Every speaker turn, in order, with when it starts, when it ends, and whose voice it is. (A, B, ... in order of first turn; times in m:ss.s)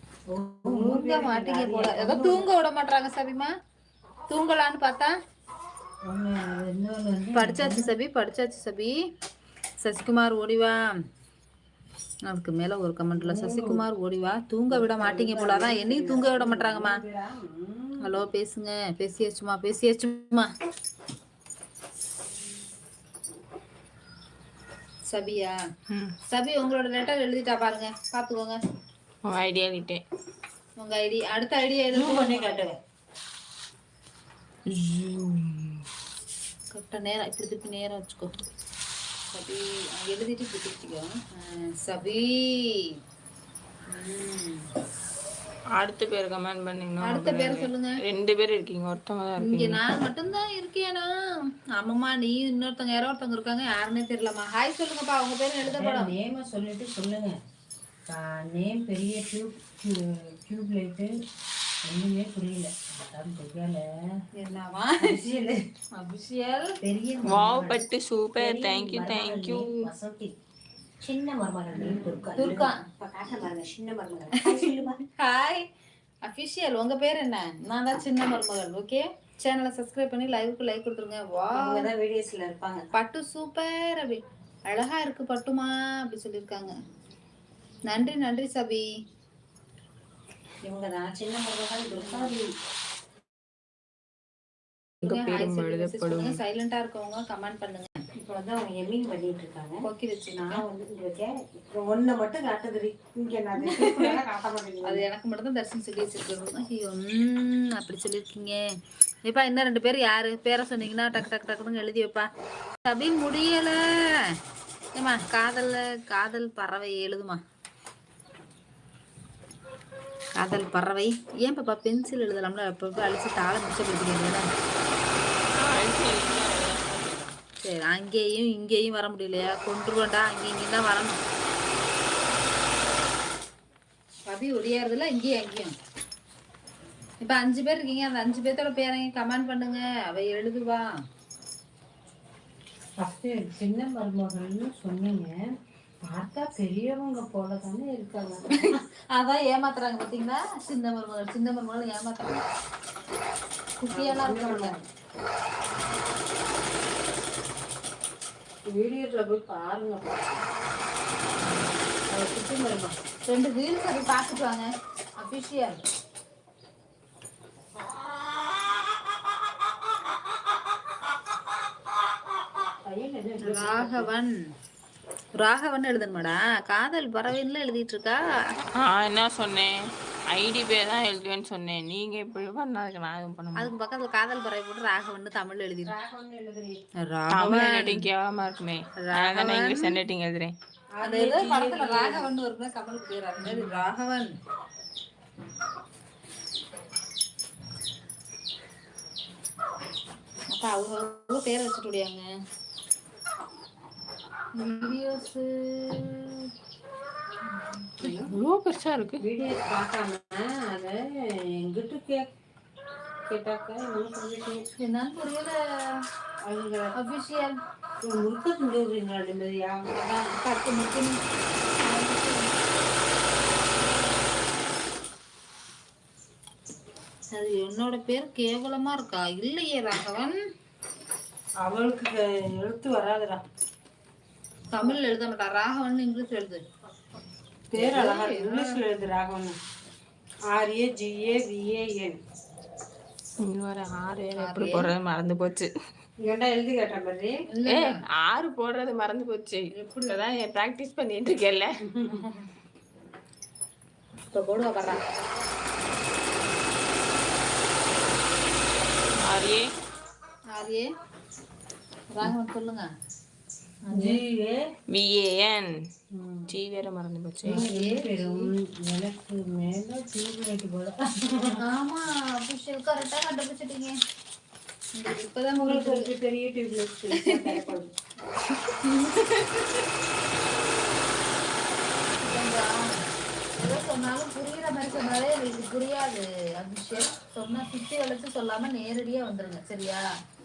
0:00.3-0:02.5 A
0:00.6-0:03.5 B
0:04.3-0:05.1 B
0:06.1-0:07.9 A
0:07.3-0:08.9 B
0:09.8-0:10.8 B
0:12.2-0:17.0 B
0:13.2-0:13.8 A
0:14.7-0:18.2 A
0:18.0-0:20.5 B
0:25.1-0:25.6 B
0:25.9-0:26.1 C
0:26.3-0:28.6 B
0:29.2-0:30.0 C
0:30.8-0:32.5 B
0:31.9-0:32.8 A
0:34.7-0:35.8 C
0:36.7-0:38.4 B
0:39.3-0:43.0 B
0:43.9-0:44.7 B
0:45.8-0:49.8 C
0:47.0-0:48.0 B
0:49.4-0:51.1 B
0:51.7-0:56.1 B
0:55.6-0:57.4 A
0:58.1-1:01.1 A
1:01.8-1:03.8 A
1:04.4-1:05.2 B
1:05.0-1:05.6 A
1:06.0-1:06.8 B
1:06.8-1:07.8 A
1:07.2-1:09.9 C
1:08.4-1:10.3 A
1:11.0-1:15.0 A
1:11.8-1:12.8 B
1:14.4-1:15.6 B
1:16.2-1:21.9 B
1:21.6-1:22.9 A
1:22.9-1:26.7 B
1:27.8-1:28.9 B
1:30.6-1:32.5 A
1:31.9-1:32.3 B
1:35.0-1:36.4 C
1:35.0-1:38.0 B
1:38.2-1:45.1 A
1:39.8-1:40.6 B
1:43.7-1:44.1 B
1:44.8-1:48.6 B
1:49.2-1:52.3 B
1:52.8-1:53.8 B
1:54.9-1:57.4 B
2:00.4-2:04.5 B
2:05.5-2:07.4 C
2:07.6-2:11.2 B
2:14.3-2:15.7 B
2:17.2-2:20.8 B
2:23.0-2:28.8 A
2:28.5-2:32.4 B
2:33.8-2:34.8 B
2:33.9-2:34.8 A
2:38.7-2:40.4 A
2:42.1-2:43.0 A
2:43.3-2:44.7 B
2:45.2-2:45.8 B
2:52.8-2:54.1 A
2:53.4-2:54.3 B
2:55.4-2:58.2 B
2:58.8-2:59.8 C
3:00.3-3:03.7 C
3:03.6-3:06.0 B
3:05.8-3:06.8 A
3:07.0-3:08.1 B
3:07.3-3:10.5 C
3:09.0-3:09.9 B
3:10.9-3:12.3 A
3:11.0-3:14.3 B
3:13.4-3:13.9 A
3:20.5-3:22.2 B
3:24.6-3:26.5 B
3:27.4-3:27.9 B
3:28.0-3:28.3 A
3:28.0-3:29.2 C
3:29.2-3:32.3 A
3:33.3-3:34.6 A
3:34.8-3:35.6 B
3:36.4-3:36.9 A
3:37.0-3:37.6 B
3:38.0-3:40.3 A
3:40.3-3:42.6 B
3:47.3-3:50.4 B
3:51.6-3:53.4 A
3:54.7-3:56.6 B
3:57.7-3:59.6 A
3:57.8-3:58.8 C
4:00.5-4:02.2 A
4:03.4-4:05.7 C
4:04.4-4:04.9 B
4:06.2-4:07.4 A
4:07.5-4:08.0 B
4:07.7-4:11.7 C
4:09.7-4:10.2 B
4:11.9-4:12.3 A
4:14.3-4:15.0 B
4:19.1-4:19.7 C
4:20.5-4:20.9 B
4:22.1-4:22.9 B
4:23.9-4:24.2 B
4:23.9-4:24.7 A
4:24.9-4:25.7 C
4:26.1-4:26.5 A
4:26.5-4:27.6 C
4:27.4-4:31.6 A
4:27.5-4:28.5 B
4:31.6-4:34.0 B
4:34.9-4:36.1 B
4:35.6-4:37.9 A
4:37.2-4:37.6 B
4:38.6-4:39.9 B
4:42.2-4:50.0 B